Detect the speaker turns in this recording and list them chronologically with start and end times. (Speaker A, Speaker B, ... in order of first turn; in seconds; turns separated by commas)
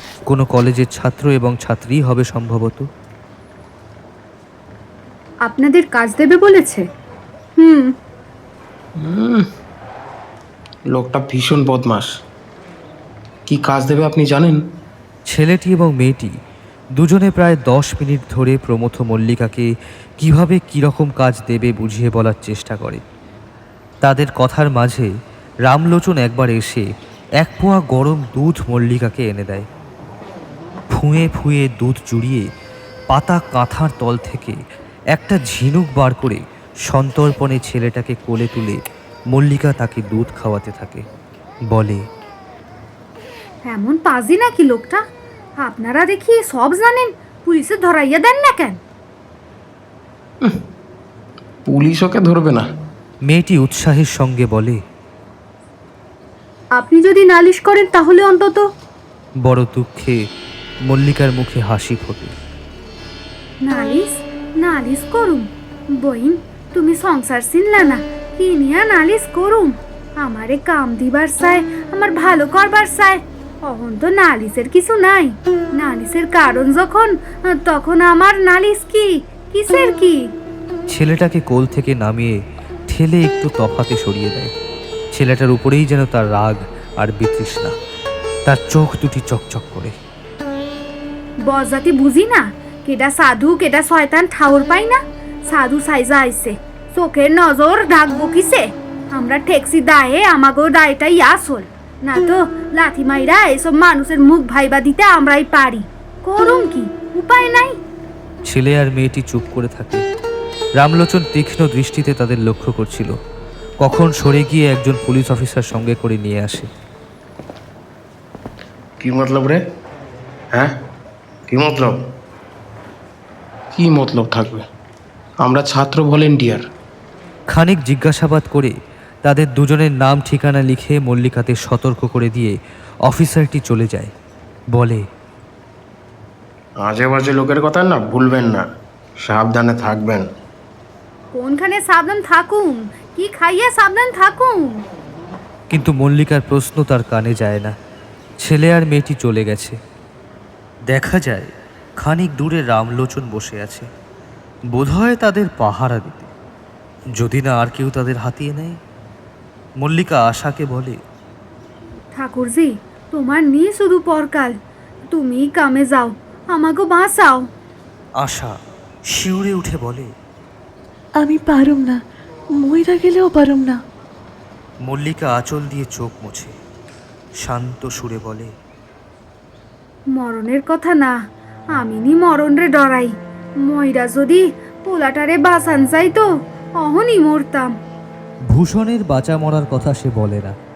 Speaker A: 0.3-2.9, Speaker B: 5.5-6.8, Speaker B: 7.6-7.9, Speaker C: 9.0-9.5, Speaker C: 10.9-12.1, Speaker C: 13.5-14.6, Speaker A: 15.3-16.3, Speaker A: 17.0-23.0, Speaker A: 24.0-25.1, Speaker A: 25.7-26.9, Speaker A: 27.4-29.7, Speaker A: 30.9-32.5, Speaker A: 33.1-34.6, Speaker A: 35.1-38.8, Speaker A: 39.3-41.0, Speaker A: 41.7-42.0, Speaker B: 43.7-45.0, Speaker B: 45.6-48.8, Speaker C: 51.7-52.7, Speaker A: 53.3-54.8, Speaker B: 56.8-58.7, Speaker A: 59.4-60.2, Speaker A: 60.9-62.3, Speaker B: 63.6-80.3, Speaker A: 80.9-82.4, Speaker A: 82.9-84.5, Speaker A: 85.1-87.8, Speaker A: 88.5-89.9, Speaker B: 91.5-107.8, Speaker A: 108.5-110.0, Speaker A: 110.8-113.2, Speaker A: 113.8-116.7, Speaker C: 119.0-119.6, Speaker C: 121.5-122.0, Speaker C: 123.8-124.6, Speaker C: 125.4-126.6, Speaker A: 127.5-128.7, Speaker A: 129.2-134.1, Speaker A: 134.7-135.0, Speaker C: 136.8-138.7, Speaker C: 139.2-140.3, Speaker B: 141.3-144.8, Speaker A: 145.7-147.7, Speaker A: 148.4-149.8, Speaker A: 150.9-153.9, Speaker A: 154.7-156.3, Speaker A: 157.2-158.8, Speaker A: 159.8-161.0, Speaker B: 162.2-164.5, Speaker B: 165.1-167.5, Speaker A: 168.2-168.6, Speaker A: 169.1-170.1, Speaker D: 171.2-172.0, Speaker D: 172.6-173.8, Speaker A: 174.8-176.5, Speaker A: 177.4-178.5, Speaker B: 180.2-181.1, Speaker B: 181.8-183.1, Speaker B: 183.7-186.3, Speaker B: 186.8-187.7, Speaker A: 188.5-190.5